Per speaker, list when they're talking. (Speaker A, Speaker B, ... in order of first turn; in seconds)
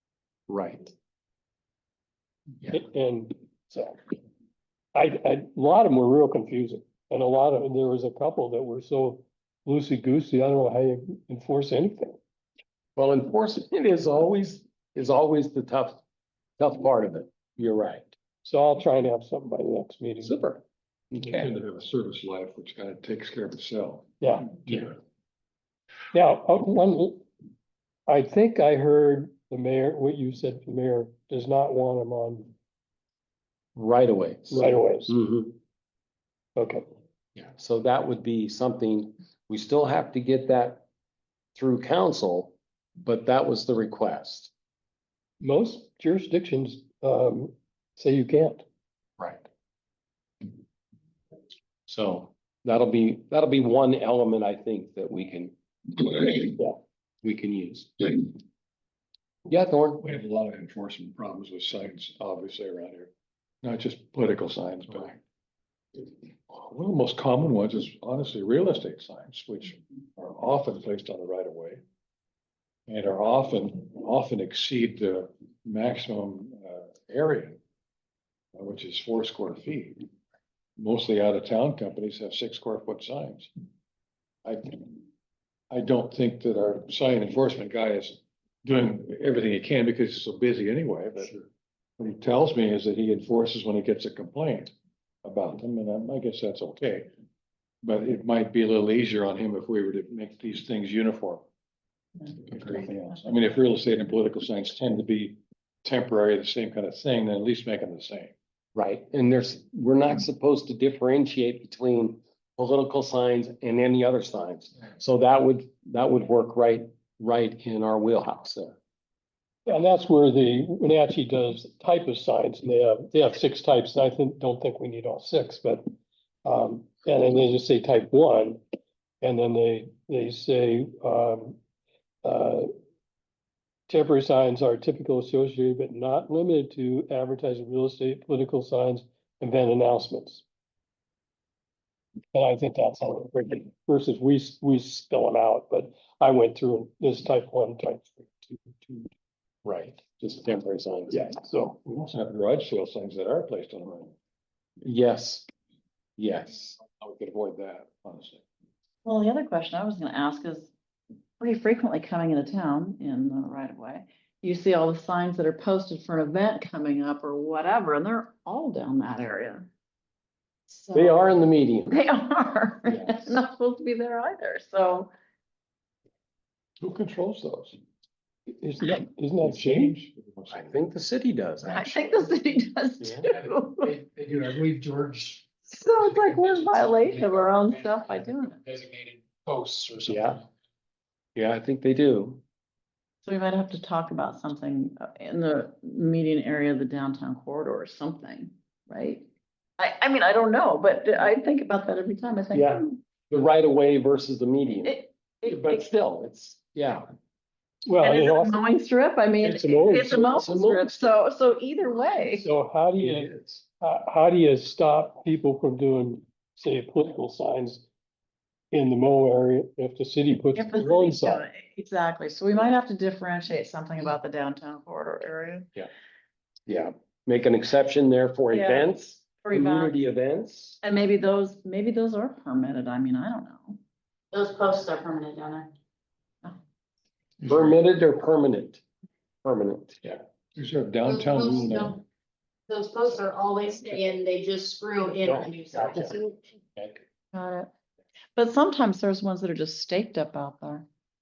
Speaker A: 0.5-0.9, 13.0-16.0, 16.6-18.1, 20.2-20.6, 33.8-35.6, 37.4-40.9, 41.6-44.5, 49.2-49.4, 51.9-55.5, 56.1-58.1, 59.5-60.0, 108.8-118.8, 149.7-151.2, 154.8-155.5, 156.2-157.0, 170.9-172.0, 172.9-173.4, 180.5-182.3, 183.0-183.3, 190.0-190.4, 191.4-192.4, 202.5-207.1, 210.0-211.1, 213.0-213.6, 226.7-230.8, 237.4-238.8, 239.4-240.2, 245.2-247.0
Speaker B: 2.7-4.0, 4.9-12.2, 18.4-20.4, 24.2-24.6, 26.1-27.3, 28.1-32.5, 34.5-35.2, 36.6-36.9, 45.4-48.6, 119.7-125.8, 126.5-128.6, 129.2-131.6, 132.2-132.7, 133.9-140.4, 142.3-149.1, 151.1-151.9, 178.6-179.9, 207.9-208.6, 209.4-210.3, 212.3-217.8, 218.7-221.4
Speaker C: 21.2-24.1, 24.7-24.9, 60.0-63.1, 63.6-65.2, 66.5-71.8, 72.9-77.6, 78.5-80.1, 80.8-83.5, 84.5-85.0, 85.7-91.5, 92.0-94.7, 95.2-97.1, 97.8-101.5, 102.4-108.3, 151.9-154.1, 157.0-158.4, 176.8-177.8, 179.4-180.8, 237.4-237.8, 240.6-242.0
Speaker D: 159.1-160.7, 161.4-169.7, 170.7-171.4, 171.9-175.1, 181.6-184.0, 185.7-188.6, 193.2-199.3, 199.8-203.0, 204.8-205.9, 208.0-212.5, 220.6-225.7, 228.5-230.0, 230.8-233.8, 247.3-247.7, 248.4-250.9
Speaker E: 183.3-190.4
Speaker F: 234.3-235.7, 241.0-242.0, 242.7-246.2